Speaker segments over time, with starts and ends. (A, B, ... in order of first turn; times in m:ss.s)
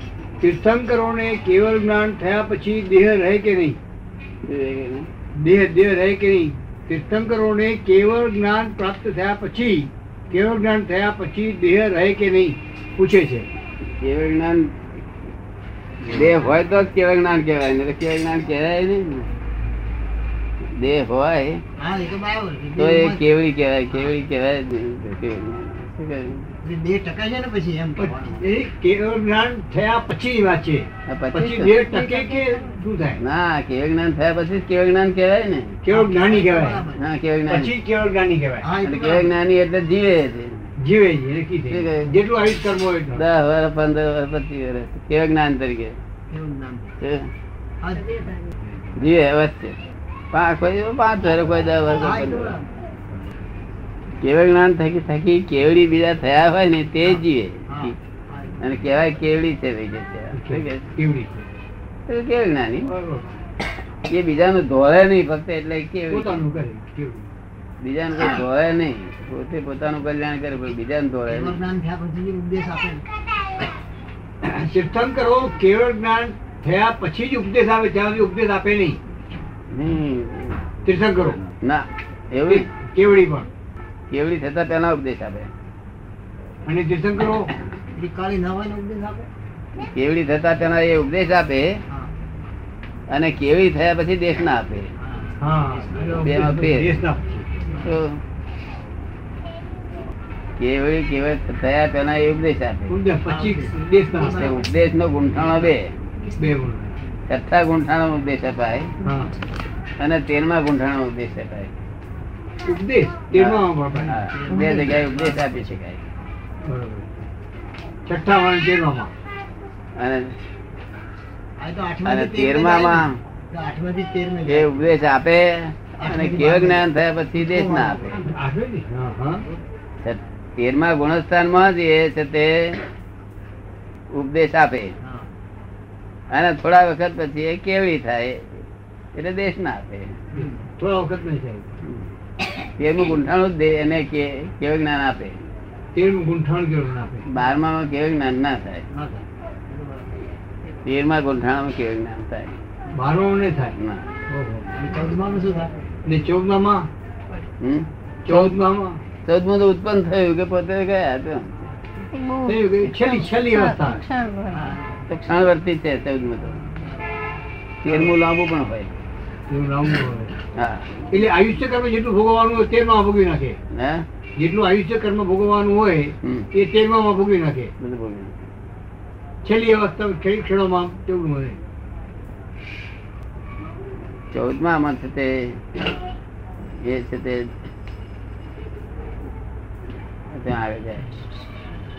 0:00.4-0:03.8 A
0:04.4-0:05.1 B
0:05.4-0:13.5 A
0:14.0-0:14.7 B
0:16.0-0:19.3 B
0:20.8-0:21.6 B
0:21.8-0:23.3 C
0:22.8-0:26.5 B
0:26.6-0:28.4 C
0:28.0-0:33.2 A
0:31.1-0:31.8 B
0:31.9-0:32.6 C
0:33.2-0:35.8 B
0:35.8-0:36.8 A
0:35.9-0:37.0 C
0:36.9-0:37.7 B
0:37.5-0:38.7 A
0:38.6-0:39.3 C
0:38.8-0:40.5 B
0:40.8-0:43.2 A
0:41.7-0:42.1 B
0:43.1-0:46.0 B
0:46.3-0:47.0 C
0:47.0-0:47.3 B
0:47.8-0:48.4 C
0:49.0-0:49.8 B
0:50.3-0:52.6 B
0:51.9-0:52.6 C
0:54.2-0:58.0 B
0:57.0-0:58.7 C
0:58.6-1:00.9 B
1:00.3-1:01.5 A
1:02.1-1:02.9 B
1:02.8-1:03.2 A
1:04.1-1:06.4 B
1:06.1-1:07.3 A
1:07.8-1:11.6 B
1:11.3-1:13.0 C
1:14.4-1:19.0 A
1:19.7-1:20.6 B
1:20.8-1:21.4 A
1:21.4-1:22.7 B
1:22.5-1:23.5 A
1:24.1-1:25.5 B
1:26.6-1:27.5 A
1:27.9-1:29.3 C
1:29.8-1:31.8 B
1:33.1-1:34.9 B
1:35.0-1:36.0 C
1:35.4-1:37.6 A
1:36.0-1:37.0 B
1:37.8-1:38.2 B
1:40.6-1:42.9 B
1:42.9-1:44.5 A
1:43.3-1:44.6 C
1:44.2-1:45.9 B
1:46.4-1:46.9 A
1:47.3-1:48.9 B
1:49.0-1:49.3 A
1:50.0-1:51.7 B
1:52.6-1:54.2 A
1:53.3-1:56.0 B
1:54.0-1:55.7 C
1:56.6-1:57.1 A
1:58.0-1:59.1 A
2:00.0-2:00.3 B
2:01.6-2:04.8 C
2:02.0-2:03.2 B
2:04.4-2:08.3 B
2:06.0-2:06.8 C
2:07.4-2:08.1 C
2:08.1-2:09.4 A
2:10.0-2:12.8 B
2:14.1-2:14.9 B
2:16.3-2:18.6 B
2:19.1-2:20.2 B
2:20.3-2:21.7 A
2:22.8-2:25.4 B
2:25.9-2:27.3 A
2:27.3-2:28.8 B
2:28.9-2:29.2 C
2:30.8-2:32.6 B
2:32.9-2:33.8 A
2:33.8-2:34.1 B
2:34.3-2:34.7 A
2:34.7-2:35.7 C
2:36.0-2:36.9 A
2:37.6-2:38.6 B
2:38.2-2:39.0 A
2:39.2-2:46.6 B
2:42.4-2:44.0 A
2:44.5-2:45.0 C
2:47.8-2:48.9 B
2:49.5-2:50.3 A
2:50.5-2:51.2 B
2:51.1-2:53.6 A
2:53.7-2:54.0 B
2:54.4-2:57.7 A
2:56.2-2:56.5 B
2:57.8-2:58.3 B
2:59.4-3:01.6 A
3:04.3-3:05.6 B
3:06.8-3:07.5 B
3:10.3-3:11.1 B